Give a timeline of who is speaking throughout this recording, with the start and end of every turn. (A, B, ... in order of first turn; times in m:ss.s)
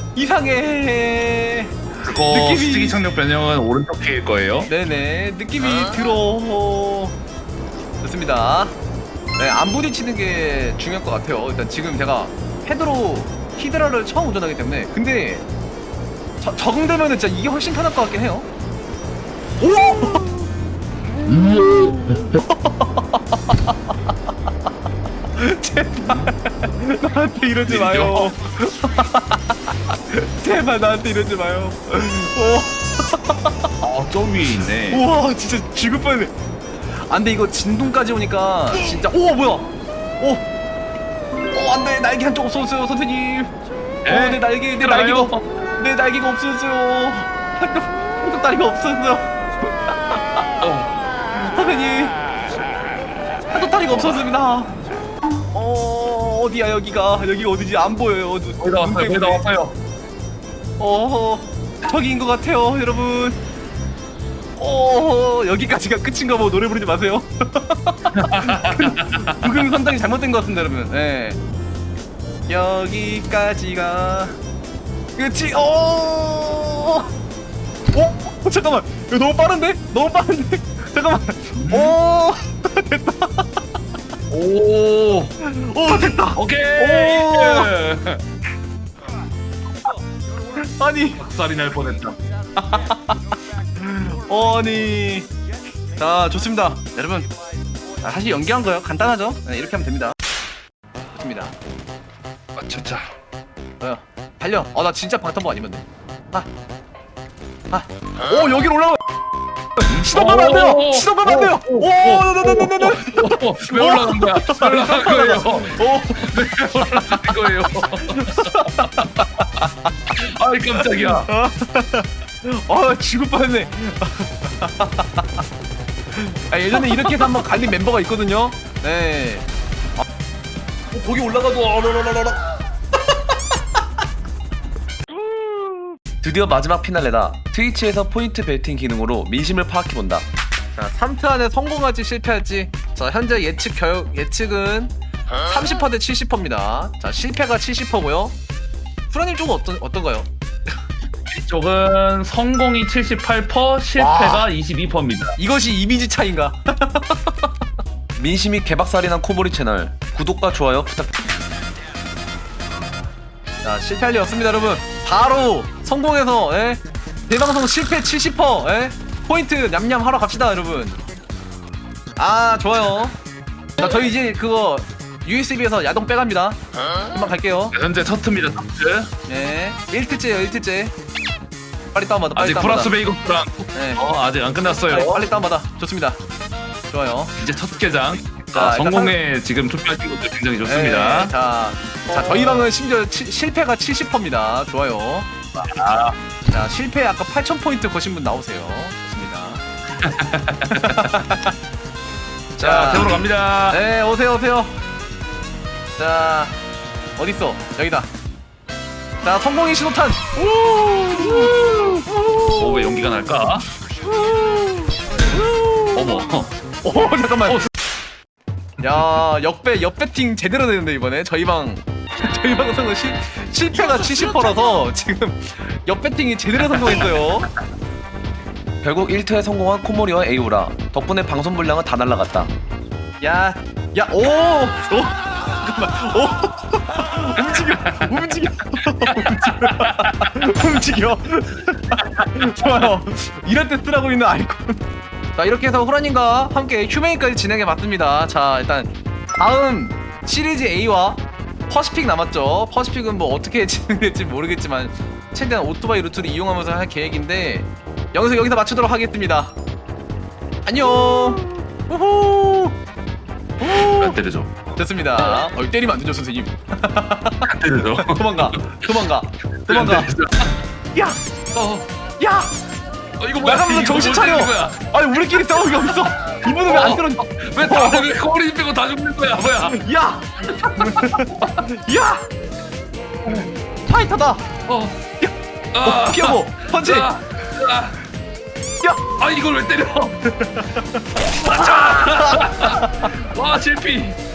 0:00.2-0:03.0 A
0:02.0-0:04.7 B
0:04.7-0:07.2 A
0:08.0-0:08.8 A
0:09.4-0:15.5 A
0:16.4-0:18.5 A
0:19.6-0:20.4 A
0:21.4-0:23.8 A
0:25.3-0:33.7 A
0:27.6-0:28.3 B
0:33.8-0:35.1 B
0:34.9-0:36.4 A
0:36.9-0:39.7 A
0:40.2-0:40.4 A
0:41.5-0:43.5 A
0:44.0-0:49.4 A
0:44.1-0:45.5 B
0:49.9-0:50.7 A
0:50.6-0:50.9 B
0:51.3-0:52.2 A
0:53.5-0:54.8 A
0:53.9-0:54.2 B
0:55.5-0:59.5 A
0:58.6-0:59.8 B
1:00.8-1:03.4 A
1:04.6-1:11.4 A
1:08.2-1:09.6 B
1:12.5-1:14.4 A
1:15.2-1:17.1 A
1:17.9-1:23.5 A
1:21.6-1:22.0 B
1:24.3-1:25.4 B
1:25.4-1:27.7 A
1:26.4-1:28.2 B
1:30.6-1:31.2 A
1:31.2-1:32.2 B
1:32.6-1:33.2 A
1:33.8-1:35.3 A
1:36.0-1:37.3 A
1:38.0-1:40.2 A
1:41.1-1:41.6 A
1:42.6-1:43.1 B
1:43.8-1:46.5 A
1:47.7-1:49.0 A
1:49.8-2:01.3 B
1:49.9-1:59.9 A
2:00.7-2:05.4 A
2:06.1-2:09.5 A
2:11.2-2:12.1 B
2:16.2-2:20.3 C
2:20.8-2:28.4 A
2:29.1-2:30.3 A
2:31.3-2:35.4 B
2:34.0-2:34.5 A
2:35.4-2:37.6 A
2:38.2-2:41.1 C
2:43.6-2:51.0 A
2:52.2-2:53.2 A
2:53.8-2:57.8 A
2:57.7-2:59.1 B
2:59.3-3:00.9 A
3:01.9-3:02.9 A
3:02.4-3:05.3 B
3:03.7-3:04.0 A
3:04.7-3:06.2 A
3:06.9-3:07.4 A
3:07.4-3:11.3 B
3:08.5-3:09.2 A
3:10.7-3:15.3 A
3:15.6-3:16.2 B
3:16.5-3:19.6 A
3:20.0-3:21.2 B
3:20.7-3:21.5 A
3:22.6-3:24.8 A
3:22.6-3:23.8 B
3:26.0-3:26.6 A
3:27.2-3:28.1 A
3:29.2-3:32.9 A
3:31.2-3:31.7 B
3:32.5-3:33.7 B
3:34.0-3:36.2 A
3:35.9-3:36.5 B
3:36.8-3:37.7 A
3:38.8-3:47.5 A
3:43.8-3:44.5 B
3:46.8-3:47.1 B
3:48.8-3:52.5 C
3:53.2-4:04.8 A
3:58.8-4:00.6 B
4:02.0-4:02.4 B
4:05.3-4:19.6 A
4:20.6-4:22.8 A
4:23.6-4:24.2 A
4:23.7-4:24.5 B
4:24.8-4:30.1 A
4:27.4-4:28.9 B
4:29.7-4:30.6 B
4:30.9-4:31.2 A
4:31.6-4:31.9 B
4:32.2-4:32.5 A
4:33.2-4:34.8 B
4:33.4-4:38.2 A
4:35.4-4:39.8 B
4:39.6-4:42.3 A
4:40.8-4:41.5 B
4:43.9-4:44.5 A
4:44.7-4:45.0 B
4:45.2-4:47.1 A
4:45.8-4:48.0 B
4:48.8-4:49.1 A
4:49.2-4:50.4 B
4:50.3-4:53.1 A
4:51.2-4:54.2 B